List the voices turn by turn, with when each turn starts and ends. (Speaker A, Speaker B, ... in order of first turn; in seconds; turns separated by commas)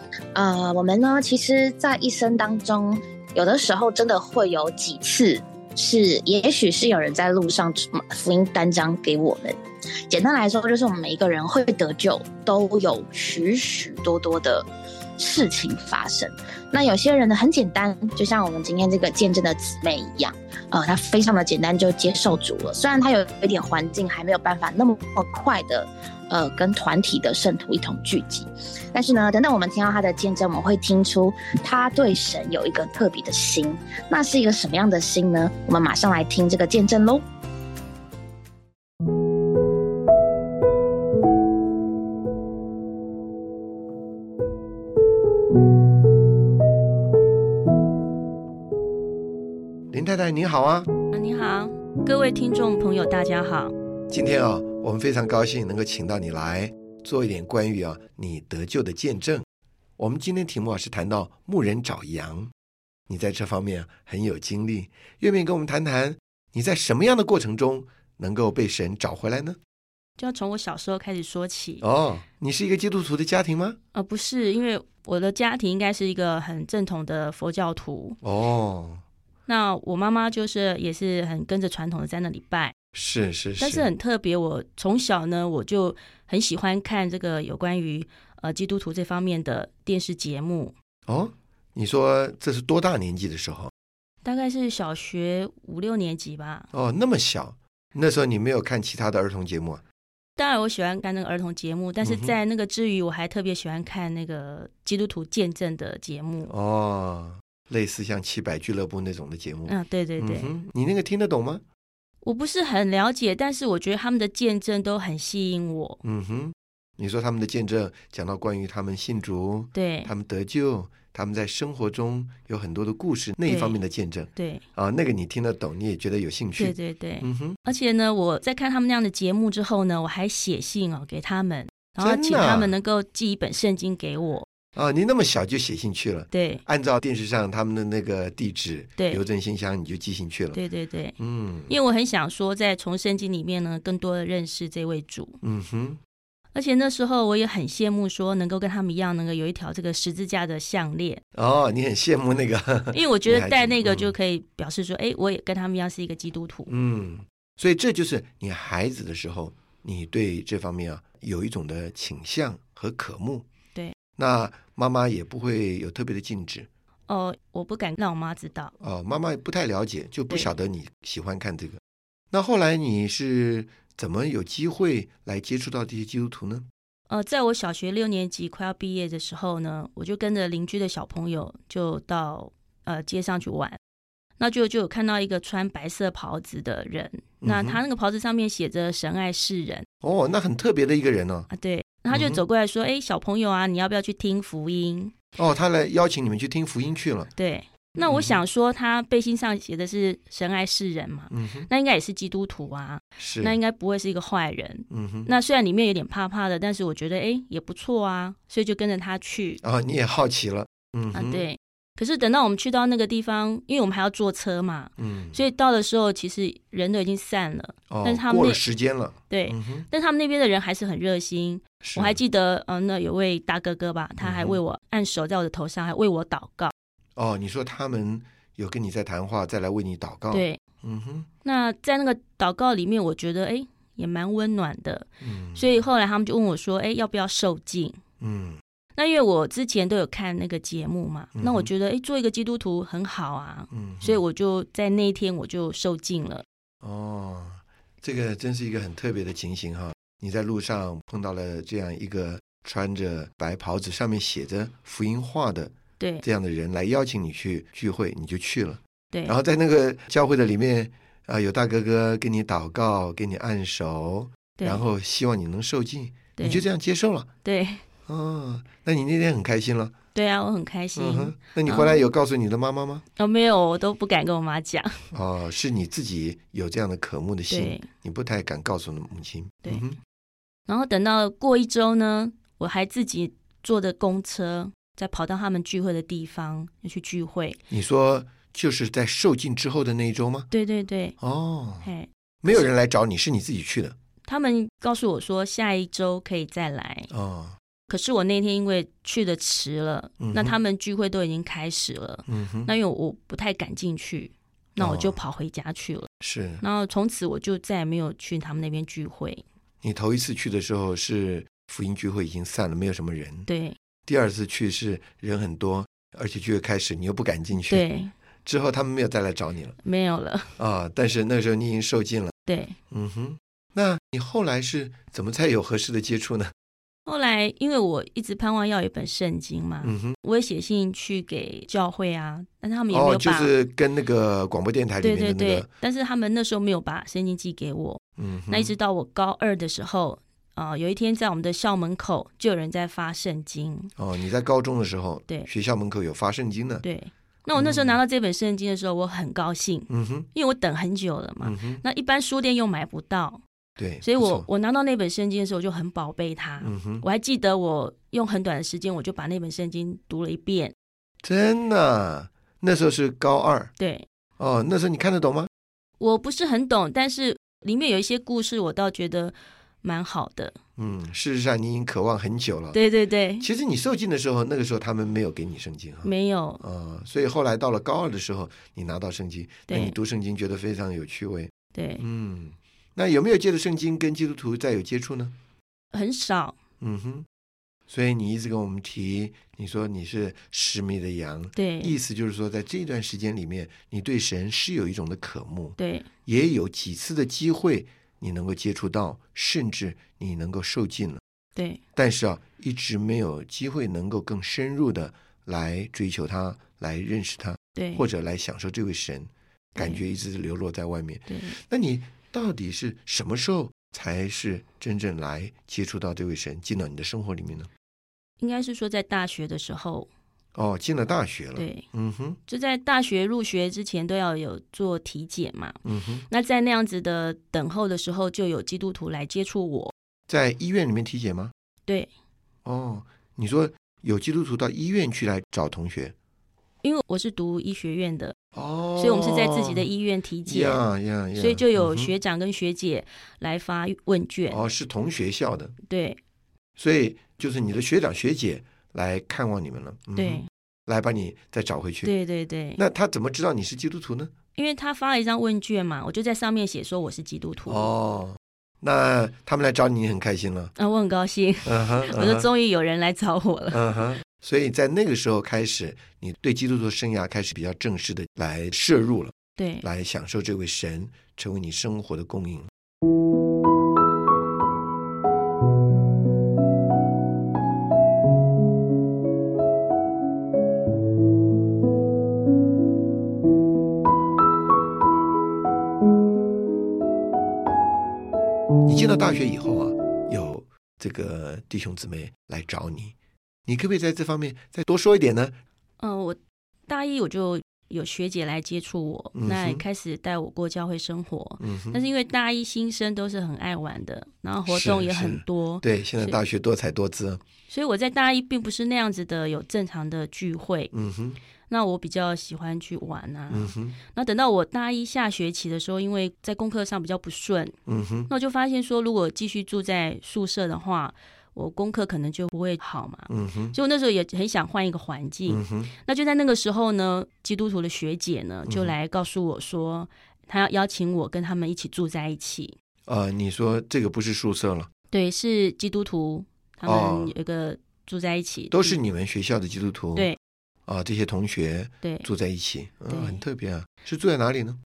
Speaker A: 0.3-37.2, Speaker B: 49.9-50.9, Speaker C: 51.1-53.7, Speaker B: 54.1-59.4, Speaker B: 60.0-62.5, Speaker B: 63.1-69.6, Speaker C: 70.2-71.8, Speaker B: 71.8-73.8, Speaker C: 73.9-78.2, Speaker B: 78.2-79.0, Speaker C: 79.5-82.7, Speaker B: 82.9-83.9, Speaker C: 83.6-90.7, Speaker B: 91.1-93.7, Speaker C: 94.2-96.7, Speaker B: 96.7-99.8, Speaker C: 100.4-106.5, Speaker B: 102.0-102.3, Speaker B: 106.5-111.6, Speaker C: 109.7-110.5, Speaker C: 112.2-116.0, Speaker B: 116.0-127.6, Speaker C: 119.7-120.1, Speaker C: 123.4-123.8, Speaker C: 124.3-124.6, Speaker C: 126.6-134.5, Speaker B: 132.0-132.7, Speaker B: 134.8-140.6, Speaker C: 136.3-136.6, Speaker C: 140.5-141.2, Speaker B: 141.2-141.7, Speaker C: 141.7-145.4, Speaker B: 145.4-146.0, Speaker C: 146.5-151.2, Speaker B: 151.3-154.1, Speaker C: 152.9-156.7, Speaker B: 156.7-163.4, Speaker B: 164.2-166.7, Speaker C: 167.1-168.7, Speaker B: 168.8-171.8, Speaker B: 172.3-176.7, Speaker C: 177.1-183.8, Speaker C: 184.4-189.8, Speaker B: 187.4-187.8, Speaker B: 190.0-191.5, Speaker C: 191.5-195.1, Speaker B: 192.1-192.4, Speaker B: 195.4-197.3, Speaker C: 197.3-209.6, Speaker B: 198.0-198.4, Speaker B: 201.3-201.7, Speaker B: 203.2-203.6, Speaker B: 204.9-205.3, Speaker B: 209.6-211.4, Speaker C: 211.1-218.6, Speaker B: 215.0-215.4, Speaker B: 217.9-219.9, Speaker C: 219.3-226.7, Speaker B: 221.8-222.2, Speaker B: 224.2-224.6, Speaker B: 227.2-231.3, Speaker C: 230.3-230.6, Speaker C: 231.4-238.0, Speaker B: 235.2-235.7, Speaker B: 238.2-238.6, Speaker C: 239.0-246.4, Speaker B: 241.3-241.7, Speaker B: 243.7-244.2, Speaker B: 246.8-267.3, Speaker C: 256.0-256.2, Speaker C: 264.6-264.8, Speaker C: 266.4-266.6, Speaker C: 267.4-267.8, Speaker B: 268.1-269.9, Speaker C: 270.1-272.1, Speaker B: 270.9-273.1, Speaker C: 273.2-275.0, Speaker B: 275.1-280.0, Speaker C: 277.5-277.9, Speaker C: 280.7-287.6, Speaker B: 287.7-290.5, Speaker C: 290.5-291.2, Speaker B: 291.2-291.9, Speaker C: 291.8-292.7, Speaker B: 292.4-294.0, Speaker C: 294.3-297.1, Speaker B: 297.1-297.6, Speaker C: 297.9-306.1, Speaker B: 300.2-300.6, Speaker B: 302.3-302.7, Speaker B: 304.8-305.1, Speaker B: 306.2-306.6, Speaker C: 306.6-309.4, Speaker B: 309.8-313.5, Speaker C: 313.5-313.8, Speaker B: 314.1-317.9, Speaker C: 317.6-318.1, Speaker B: 318.4-319.8, Speaker C: 319.8-320.5, Speaker B: 320.6-322.3, Speaker C: 322.5-322.8, Speaker B: 322.9-326.5, Speaker C: 327.1-333.5, Speaker B: 329.8-330.2, Speaker B: 332.9-335.7, Speaker C: 335.0-343.9, Speaker B: 338.2-338.7, Speaker B: 344.0-346.9, Speaker C: 346.8-353.4, Speaker B: 347.6-348.0, Speaker B: 349.9-350.3, Speaker B: 351.4-351.8, Speaker B: 353.8-354.5, Speaker C: 354.0-360.8, Speaker B: 356.6-357.1, Speaker B: 361.2-363.7, Speaker C: 363.8-364.1, Speaker B: 364.4-365.5, Speaker C: 366.0-370.6, Speaker B: 370.8-372.8, Speaker C: 372.7-373.5, Speaker B: 373.4-385.3, Speaker C: 376.0-376.6, Speaker C: 379.7-380.0, Speaker C: 381.8-382.0, Speaker C: 385.9-386.6, Speaker B: 386.8-387.3, Speaker B: 387.9-401.2, Speaker C: 391.6-392.0, Speaker C: 395.8-396.1, Speaker B: 401.9-417.7, Speaker C: 407.8-408.0, Speaker C: 409.8-410.0, Speaker C: 411.3-411.6, Speaker C: 418.4-420.1, Speaker B: 420.6-422.4, Speaker C: 421.6-421.9, Speaker C: 422.5-429.9, Speaker B: 425.9-426.3, Speaker B: 430.3-431.5, Speaker B: 432.6-436.1, Speaker C: 436.8-438.4, Speaker B: 438.6-439.9, Speaker C: 439.0-440.8, Speaker B: 440.5-442.1, Speaker C: 441.4-444.6, Speaker B: 444.5-445.7, Speaker C: 445.9-446.2, Speaker B: 446.8-452.1, Speaker C: 450.2-450.5, Speaker C: 452.0-452.8, Speaker B: 452.8-454.3, Speaker C: 454.6-457.9, Speaker B: 457.7-460.7, Speaker C: 460.8-463.8, Speaker B: 461.6-462.5, Speaker B: 463.7-472.7, Speaker C: 469.6-469.9, Speaker B: 488.9-493.1, Speaker B: 493.7-495.6, Speaker C: 496.0-506.4, Speaker B: 499.4-499.8, Speaker B: 501.6-502.0, Speaker B: 504.7-507.4, Speaker C: 507.7-510.9, Speaker B: 510.9-511.4, Speaker C: 511.7-517.8, Speaker B: 513.5-514.0, Speaker B: 517.9-518.3, Speaker C: 518.3-532.8, Speaker B: 523.3-523.8, Speaker B: 525.5-525.9, Speaker B: 528.7-528.9, Speaker B: 533.1-534.9, Speaker C: 535.1-539.0, Speaker B: 536.8-537.3, Speaker B: 538.7-540.3, Speaker B: 540.9-544.8, Speaker C: 542.0-542.3, Speaker C: 543.1-543.4